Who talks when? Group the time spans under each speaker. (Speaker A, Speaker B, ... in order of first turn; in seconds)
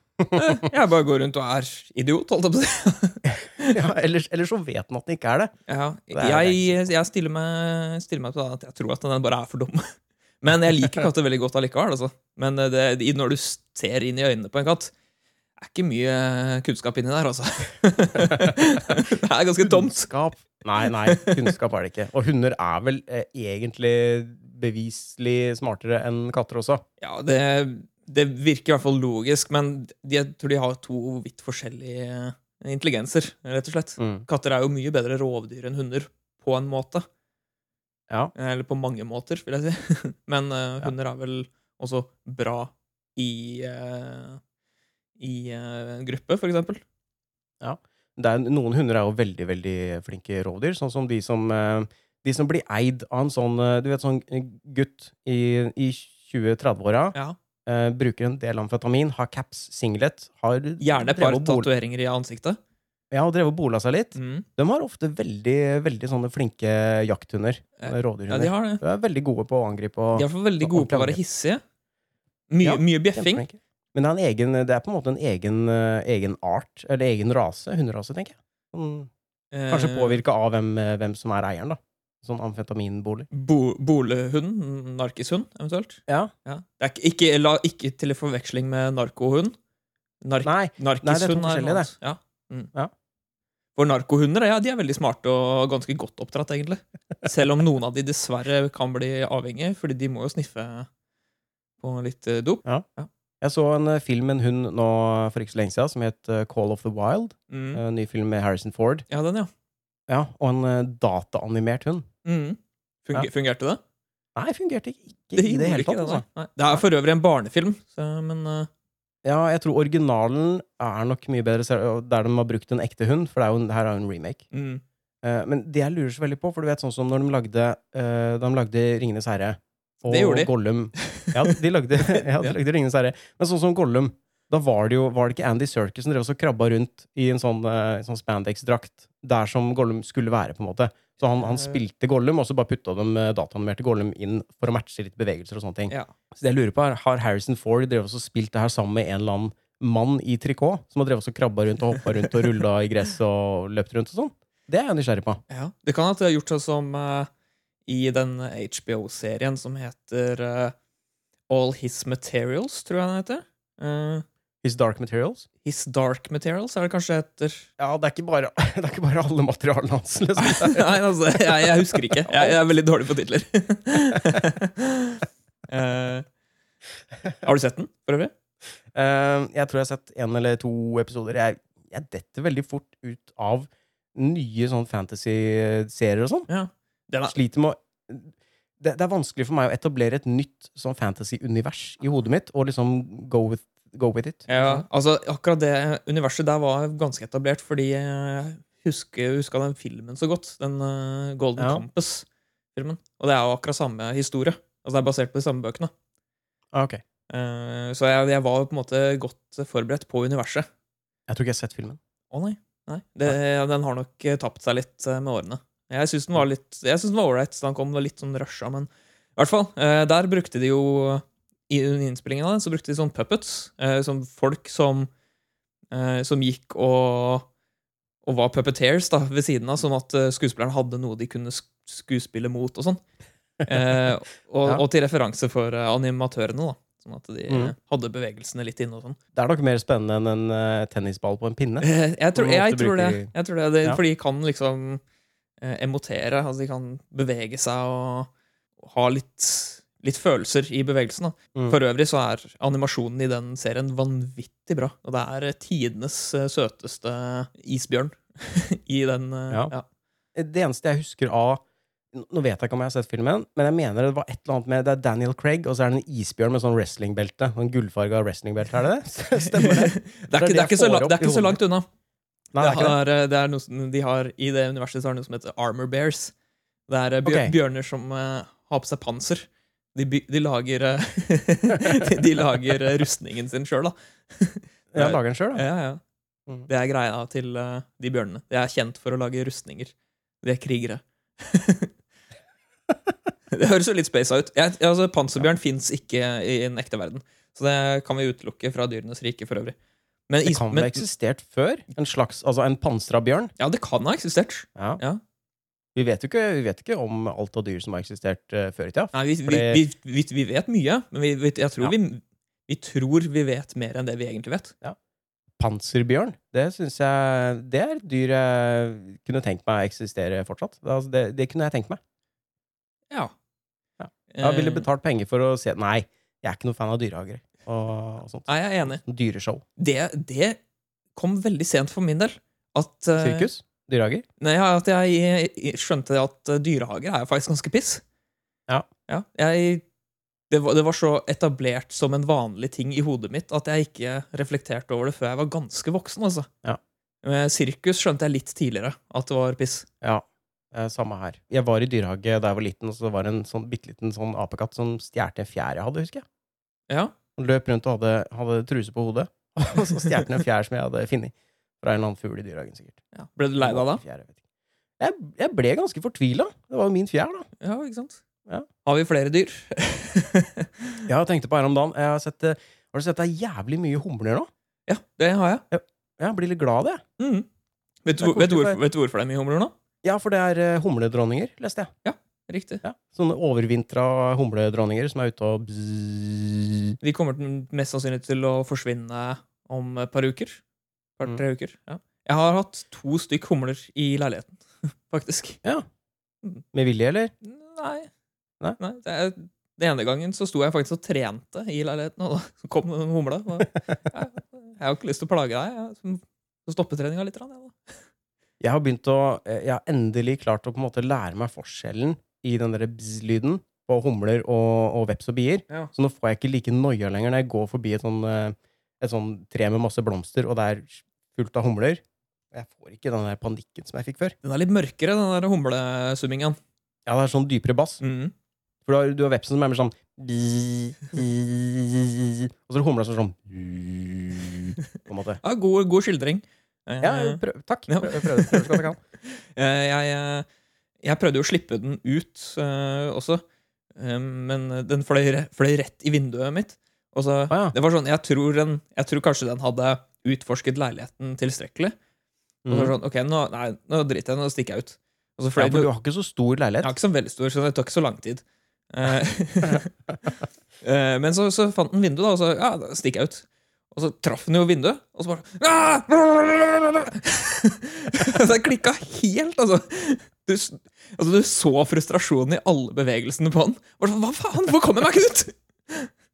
Speaker A: 0.3-3.8, 5.7-9.9, 10.4-14.9, 15.6-20.1, 21.0-21.5, 27.0-37.0, 38.3-44.4, 45.2-46.8, 60.8-62.6, 64.1-64.5, 67.8-68.8, 70.1-71.6, 72.5-73.4, 79.5-80.2, 83.3-89.5, 90.2-92.7, 93.8-100.9, 101.8-103.1, 107.5-107.8, 109.1-109.5, 112.2-113.8, 115.3-118.7, 124.5-124.8, 130.1-132.6, 141.3-141.8, 155.5-157.3, 157.9-160.7, 161.5-164.2, 165.6-167.7, 170.4-176.2, 177.4-178.3, 186.5-187.3, 194.5-205.9, 207.3-210.7, 212.3-225.1, 225.9-227.5, 228.2-233.0, 233.7-239.2, 241.8-245.0, 245.6-259.8, 269.5-271.8, 272.6-276.3, 276.9-286.0, 286.7-291.9, 293.5-299.8, 300.3-301.0, 303.6-305.2, 309.1-314.7, 324.3-324.9, 328.5-329.0, 329.8-330.6, 331.1-333.5, 334.4-338.0, 339.1-339.8, 340.5-346.5, 347.2-349.9, 356.9-357.1, 363.1-364.0, 367.6-368.2, 368.8-371.1, 374.9-375.6, 377.2-377.4, 378.0-379.7, 382.0-382.8, 387.0-390.6, 391.2-395.6, 397.4-398.1, 398.8-407.9, 424.4-426.6, 428.0-428.3, 435.4-440.4, 441.0-443.4, 443.9-451.9, 452.7-455.9, 456.8-459.9, 460.8-476.1
Speaker B: 3.3-5.5, 6.1-6.7, 19.6-26.8, 34.0-34.2, 47.6-57.1, 57.6-61.7, 63.1-71.2, 72.6-79.1, 79.7-83.3, 90.4-91.9, 103.4-109.0, 110.1-112.0, 114.3-116.8, 119.2-124.4, 125.2-155.4, 164.6-165.5, 167.8-172.6, 178.9-186.5, 187.3-194.8, 201.6-201.8, 206.7-207.0, 211.3-212.0, 237.5-237.7, 239.3-243.3, 260.3-271.6, 272.5-272.9, 277.2-277.5, 284.9-285.6, 300.4-303.5, 305.9-309.8, 315.6-322.0, 324.0-329.6, 333.2-334.2, 350.0-356.2, 357.4-363.0, 363.6-364.4, 365.0-367.5, 371.1-374.5, 375.7-377.0, 378.2-378.8, 380.0-381.9, 382.8-386.9, 396.7-397.3, 408.6-422.0, 422.5-424.3, 427.1-428.0, 428.9-435.4, 437.0-439.0, 447.5-447.7, 452.6-452.9, 455.6-456.9